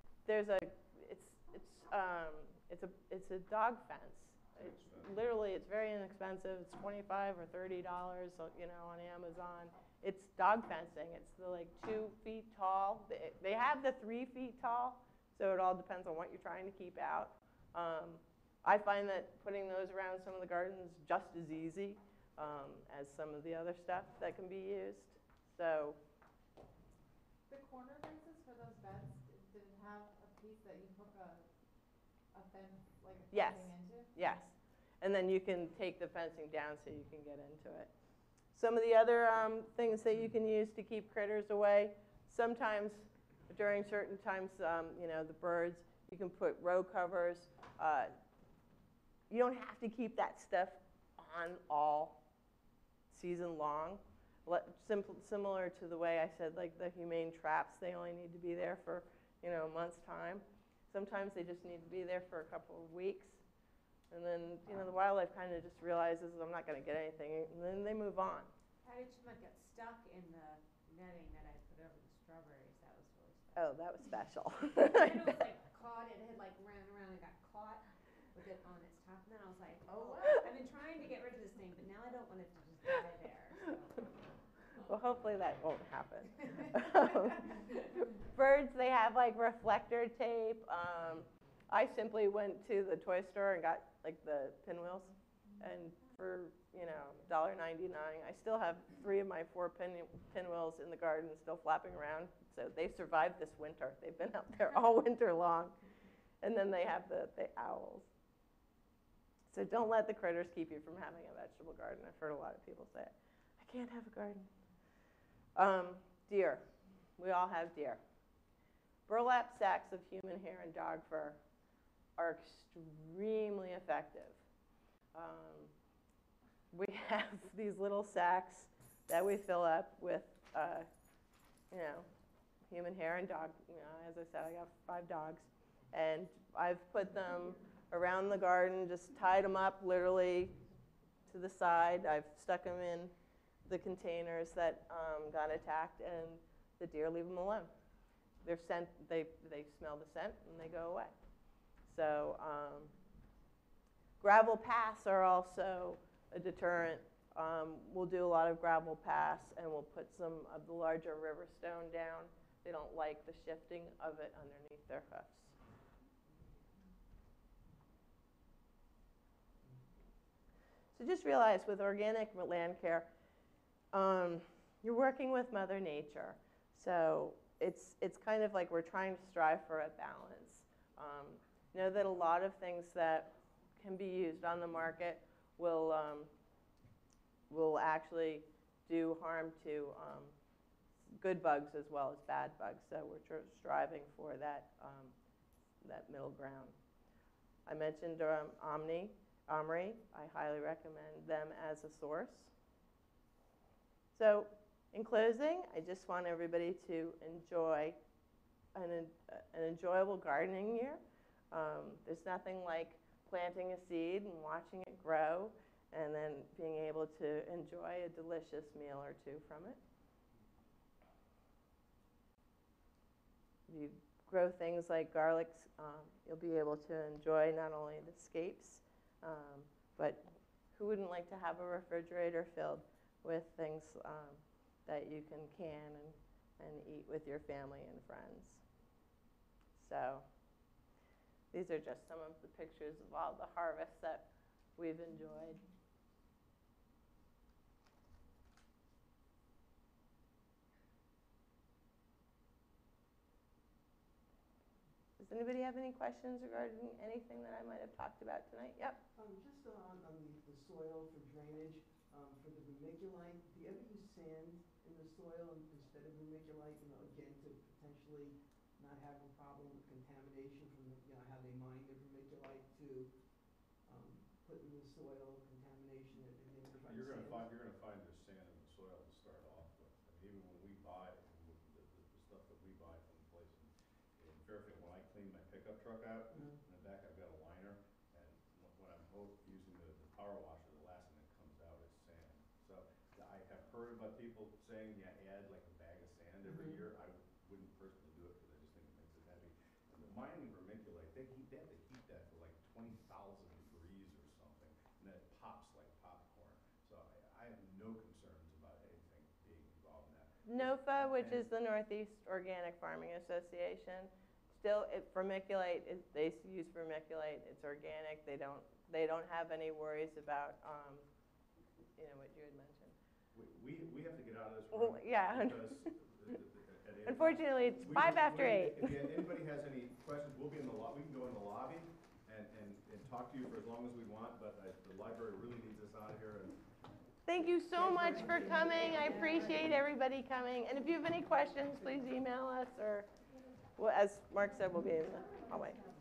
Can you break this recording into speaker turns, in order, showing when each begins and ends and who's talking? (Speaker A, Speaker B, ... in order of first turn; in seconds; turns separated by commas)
Speaker A: 0.3-26.0, Speaker B: 4.6-5.2, Speaker C: 27.5-31.5, Speaker C: 32.3-34.4, Speaker A: 33.3-37.9, Speaker A: 38.5-48.1, Speaker A: 49.3-52.2, Speaker A: 53.1-63.4, Speaker A: 64.1-68.5, Speaker D: 68.8-73.7, Speaker A: 73.6-75.4, Speaker D: 74.8-84.1, Speaker A: 80.0-80.4, Speaker A: 84.8-105.8, Speaker D: 86.4-87.7, Speaker A: 106.4-108.1, Speaker A: 109.5-114.5, Speaker A: 115.6-116.6, Speaker A: 117.2-118.0, Speaker A: 119.1-121.4, Speaker A: 122.2-124.4, Speaker A: 125.1-125.7, Speaker A: 126.7-130.9, Speaker A: 131.7-132.1, Speaker A: 132.7-140.6, Speaker A: 141.3-143.1, Speaker A: 143.7-147.7, Speaker A: 148.4-151.1, Speaker A: 151.9-152.9, Speaker A: 154.2-165.6, Speaker A: 170.9-173.1, Speaker A: 173.9-186.3, Speaker A: 187.5-190.3, Speaker A: 191.2-195.1, Speaker A: 195.8-196.8, Speaker A: 197.7-202.5, Speaker A: 204.2-208.0, Speaker A: 208.8-219.8, Speaker A: 223.7-230.2, Speaker A: 230.7-238.6, Speaker A: 239.8-240.3, Speaker A: 241.5-245.6, Speaker A: 255.2-259.0, Speaker E: 259.1-277.5, Speaker B: 276.8-311.5, Speaker E: 286.3-286.6, Speaker E: 296.5-296.8, Speaker A: 310.5-321.1, Speaker A: 322.0-322.9, Speaker B: 323.3-336.6, Speaker A: 324.7-326.0, Speaker A: 327.1-329.2, Speaker A: 337.3-343.1, Speaker A: 343.8-345.8